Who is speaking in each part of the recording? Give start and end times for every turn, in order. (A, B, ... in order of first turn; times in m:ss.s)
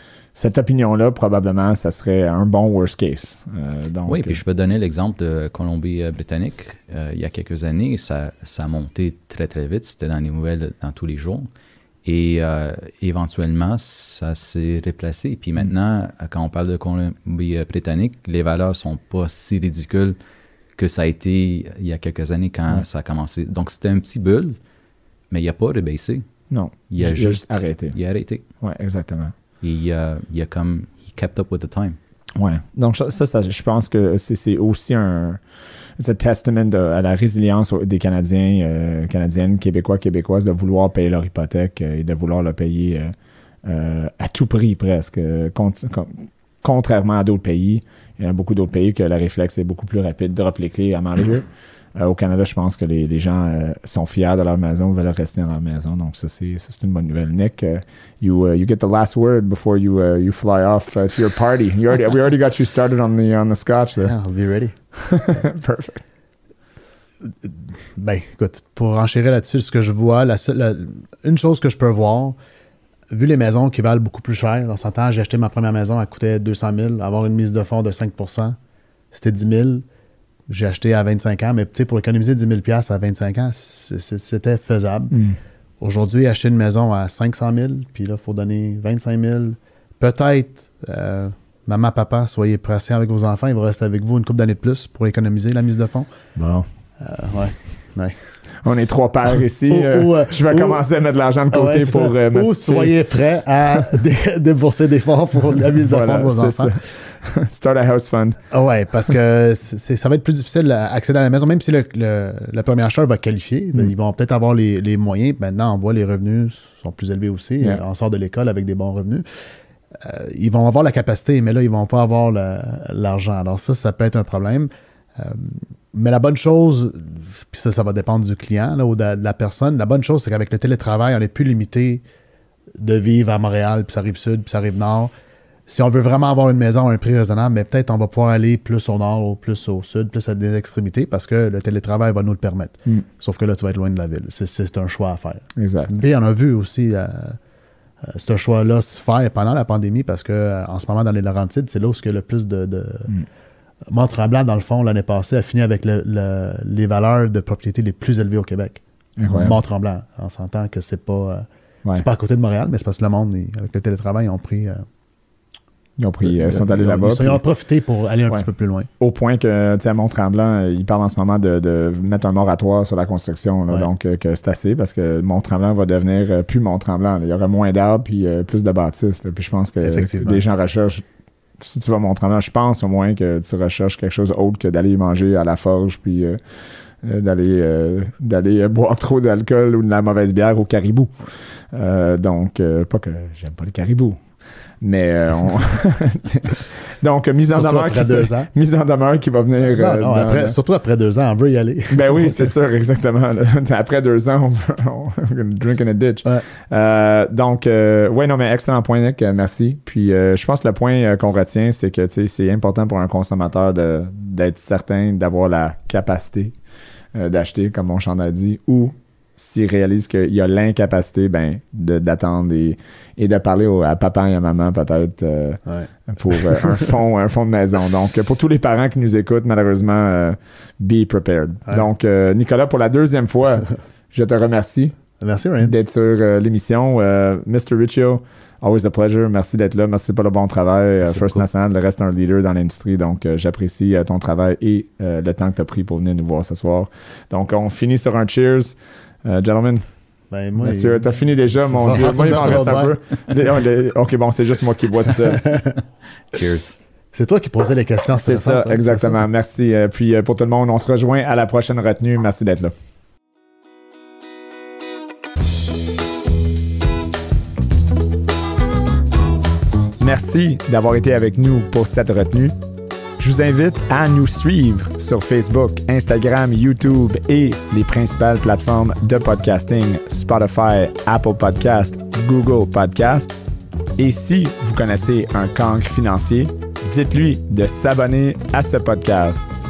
0:00.4-0:04.4 A
0:04.1-0:11.5 B
0:12.0-0:20.2 B
0:20.8-0:24.6 B
0:25.3-0:26.3 B
0:26.5-0:28.0 A
0:26.9-0:28.4 B
0:28.6-0:29.3 A
0:29.6-0:32.0 B
0:32.4-0:35.4 A
0:36.0-0:43.1 A
0:43.6-1:04.1 A
1:04.0-1:04.8 C
1:05.1-1:06.0 A
1:07.3-1:12.4 C
1:13.1-1:18.6 C
1:19.1-1:19.8 C
1:20.5-1:25.2 C
1:25.1-1:25.4 A
1:25.8-1:36.1 C
1:36.4-1:36.7 A
1:37.0-1:38.2 C
1:38.6-1:42.9 A
1:39.7-1:40.8 C
1:41.5-1:46.8 C
1:45.9-1:48.4 A
1:48.5-1:59.2 C
2:00.0-2:12.0 C
2:12.8-2:15.1 C
2:15.7-2:27.4 C
2:25.6-2:25.9 A
2:28.0-2:33.1 C
2:33.9-2:44.8 C
2:39.2-2:39.6 A
2:46.0-2:47.4 A
2:46.2-2:48.9 C
2:49.0-3:01.0 A
2:59.8-3:00.4 C
3:01.6-3:06.4 A
3:07.0-3:20.6 A
3:17.5-3:18.5 C
3:19.6-3:22.5 C
3:21.9-3:36.6 A
3:37.1-3:55.0 A
3:45.7-3:46.8 C
3:55.2-3:55.7 C
3:55.6-4:09.9 A
4:01.0-4:01.4 B
4:10.3-4:11.1 C
4:10.6-4:15.7 A
4:11.7-4:13.0 C
4:15.3-4:15.7 C
4:16.3-4:16.8 B
4:17.1-4:19.2 C
4:18.2-4:22.7 A
4:30.0-4:32.5 A
4:33.2-4:43.4 A
4:44.0-4:49.4 A